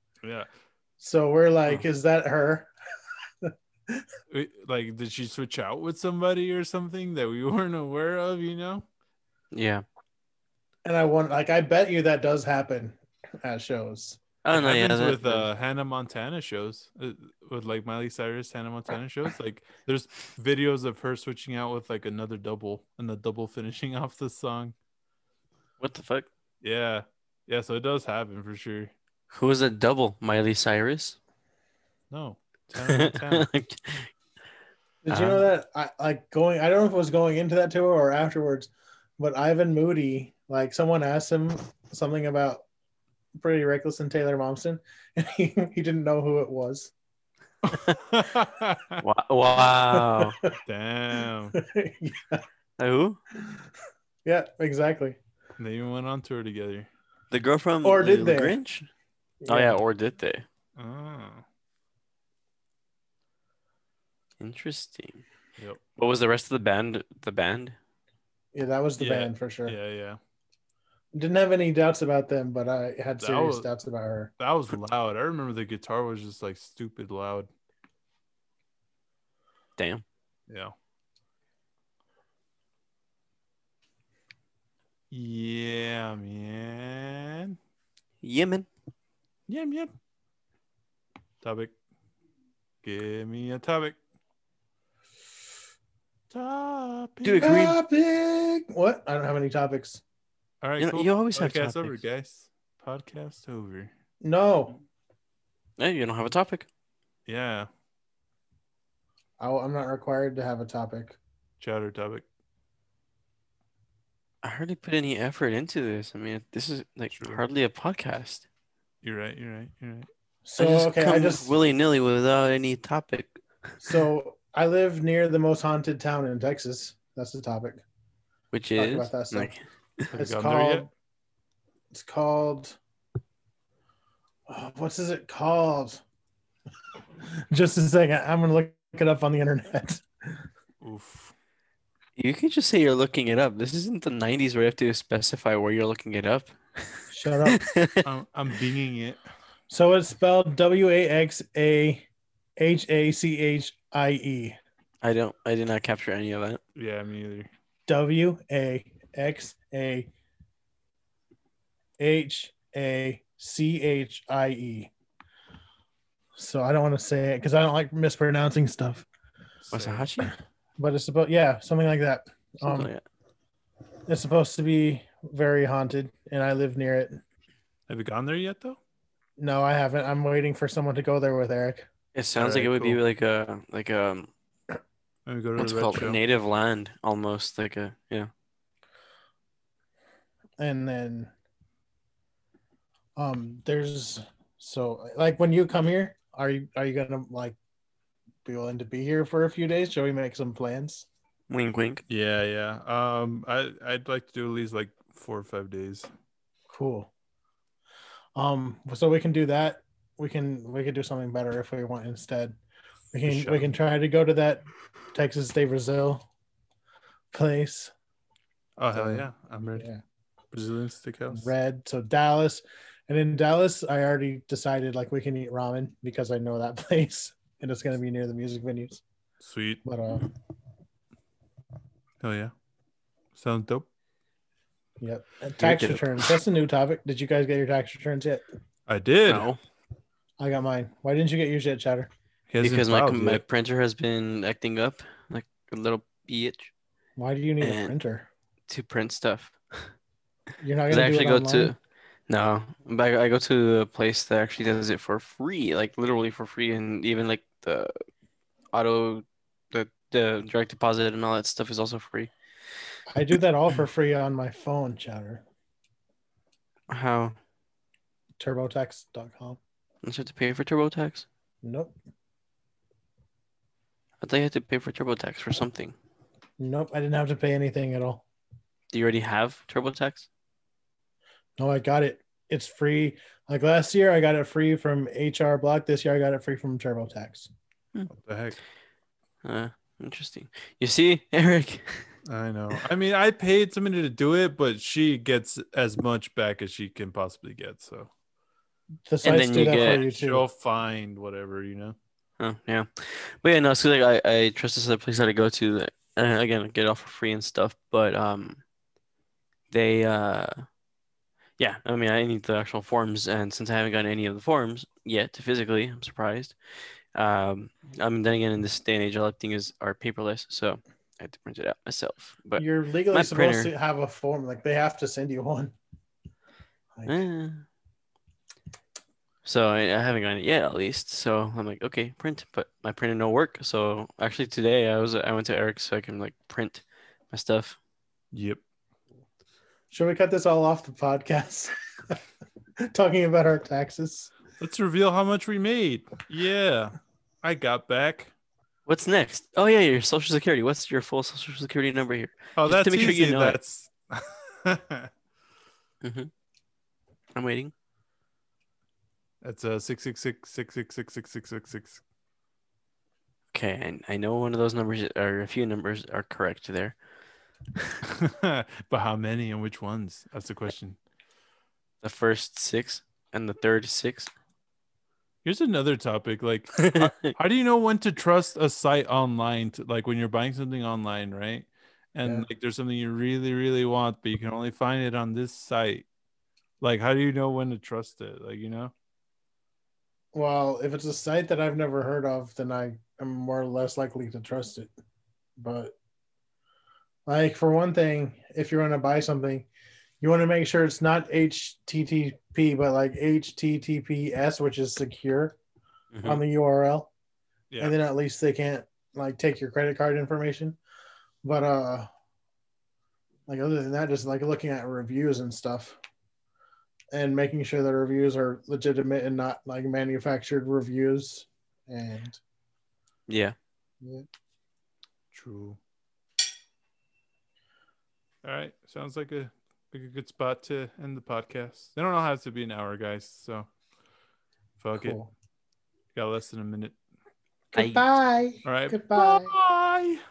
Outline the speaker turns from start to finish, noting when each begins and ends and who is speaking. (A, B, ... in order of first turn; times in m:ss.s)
0:00.2-0:00.5 A
0:01.0-0:02.7 B
0:03.4-0:04.0 B
0:04.3-0:08.8 A
0:09.5-0:09.8 C
0:10.8-0:14.2 B
0:14.4-0:15.4 C
0:14.5-0:24.7 A
0:25.8-0:26.3 C
0:26.6-0:28.9 A
0:29.3-0:31.2 C
0:32.1-0:33.4 A
0:32.8-0:34.1 C
0:35.0-0:42.6 B
0:35.1-0:35.5 C
0:43.4-0:46.9 B
0:47.7-0:49.0 A
0:49.0-0:50.4 C
0:49.9-0:50.4 B
0:50.7-0:51.6 A
0:51.5-0:52.4 B
0:52.8-0:53.2 C
0:54.2-0:55.2 B
0:55.6-0:56.9 A
0:57.3-0:58.9 C
0:57.8-0:58.6 B
0:59.4-0:59.8 B
0:59.5-1:00.4 C
1:00.8-1:01.4 A
1:04.4-1:05.2 C
1:06.0-1:07.7 C
1:08.5-1:09.7 B
1:09.0-1:10.2 A
1:11.1-1:14.3 B
1:13.2-1:13.7 A
1:14.4-1:17.5 A
1:19.8-1:20.0 C
1:20.5-1:20.7 A
1:25.1-1:27.6 A
1:28.2-1:28.7 C
1:29.5-1:29.9 A
1:31.4-1:31.7 A
1:32.8-1:34.0 A
1:36.3-1:37.5 A
1:37.2-1:37.8 C
1:37.4-1:40.0 B
1:40.6-1:43.9 A
1:40.8-1:42.0 C
1:44.2-1:44.8 B
1:45.8-1:46.7 C
1:47.2-1:47.7 A
1:49.4-1:51.2 B
1:51.6-1:52.2 A
1:54.4-1:58.4 C
1:57.2-1:57.4 A
1:59.0-2:00.1 A
2:00.4-2:01.5 B
2:00.6-2:03.4 C
2:03.8-2:07.8 B
2:08.5-2:10.1 C
2:08.8-2:09.5 B
2:10.1-2:10.9 A
2:10.1-2:10.9 B
2:11.9-2:12.8 B
2:14.5-2:16.0 B
2:17.4-2:20.4 B
2:20.8-2:21.3 A
2:22.2-2:28.0 C
2:27.1-2:27.6 B
2:28.0-2:29.2 A
2:29.7-2:32.0 B
2:32.6-2:34.6 B
2:35.0-2:36.6 C
2:36.8-2:37.5 A
2:37.9-2:40.1 B
2:42.0-2:44.9 B
2:46.4-2:49.0 B
2:49.7-2:50.1 A
2:49.7-2:50.3 C
2:50.8-2:52.9 B
2:52.6-2:53.0 C
2:54.1-2:57.2 B
2:57.9-2:58.8 A
2:59.4-3:01.9 B
3:02.1-3:04.3 C
3:02.4-3:03.0 A
3:05.2-3:06.2 A
3:05.6-3:08.3 C
3:10.6-3:11.3 B
3:13.2-3:17.6 B
3:18.4-3:21.0 B
3:21.5-3:22.0 C
3:22.1-3:26.1 A
3:26.7-3:27.1 B
3:28.4-3:32.6 B
3:33.1-3:36.2 B
3:33.3-3:33.7 A
3:37.3-3:37.9 B
3:38.8-3:39.9 A
3:38.9-3:39.3 B
3:40.5-3:41.5 A
3:41.3-3:49.0 B
3:49.4-3:49.8 A
3:49.8-3:50.3 B
3:52.2-3:52.5 A
3:53.3-3:53.9 A
3:55.0-3:58.4 B
3:55.6-3:56.3 C
3:58.9-3:59.5 A
3:59.3-3:59.6 C
4:00.4-4:02.1 B
4:02.5-4:03.4 A
4:02.6-4:06.7 C
4:07.2-4:08.3 B
4:07.6-4:07.9 C
4:08.7-4:09.9 C
4:10.6-4:11.7 B
4:10.9-4:11.8 C
4:12.3-4:17.9 C
4:18.7-4:22.3 C
4:23.1-4:25.4 B
4:26.9-4:27.4 C
4:28.4-4:29.6 B
4:30.0-4:31.2 C
4:31.6-4:31.9 B
4:34.2-4:36.0 C
4:36.6-4:38.2 B
4:38.9-4:40.3 C
4:41.6-4:47.5 B
4:48.1-4:48.6 A
4:49.4-4:52.1 C
4:52.3-4:58.1 A
4:59.0-5:00.4 B
4:59.2-5:00.0 C
4:59.5-5:02.0 A
5:02.4-5:08.6 C
5:09.7-5:10.6 C
5:11.6-5:16.6 C
5:17.1-5:23.7 C
5:22.6-5:25.7 B
5:27.0-5:27.2 B
5:27.0-5:27.6 C
5:29.4-5:37.8 C
5:38.3-5:38.6 A
5:39.9-5:42.2 B
5:42.8-5:44.3 B
5:44.6-5:48.3 A
5:48.8-5:53.6 C
5:52.6-5:55.1 A
5:56.0-5:56.3 C
5:57.4-5:57.7 C
5:59.4-6:02.0 A
6:03.5-6:07.0 C
6:08.0-6:11.0 A
6:12.0-6:14.3 C
6:15.4-6:26.0 A
6:16.8-6:17.3 C
6:26.8-6:28.9 A
6:30.3-6:34.9 B
6:35.6-6:35.9 B
6:37.3-6:39.7 B
6:40.2-6:45.6 B
6:46.1-6:46.4 C
6:46.2-6:47.1 B
6:47.7-6:48.0 A
6:47.8-6:50.8 B
6:51.4-6:52.1 B
6:53.5-6:56.0 B
6:57.1-7:02.4 B
7:03.3-7:03.6 C
7:04.0-7:04.2 B
7:05.3-7:05.8 A
7:08.4-7:13.7 A
7:14.8-7:15.2 A
7:15.0-7:15.3 B
7:16.1-7:17.0 A
7:17.7-7:19.5 B
7:17.7-7:18.0 C
7:18.6-7:20.2 A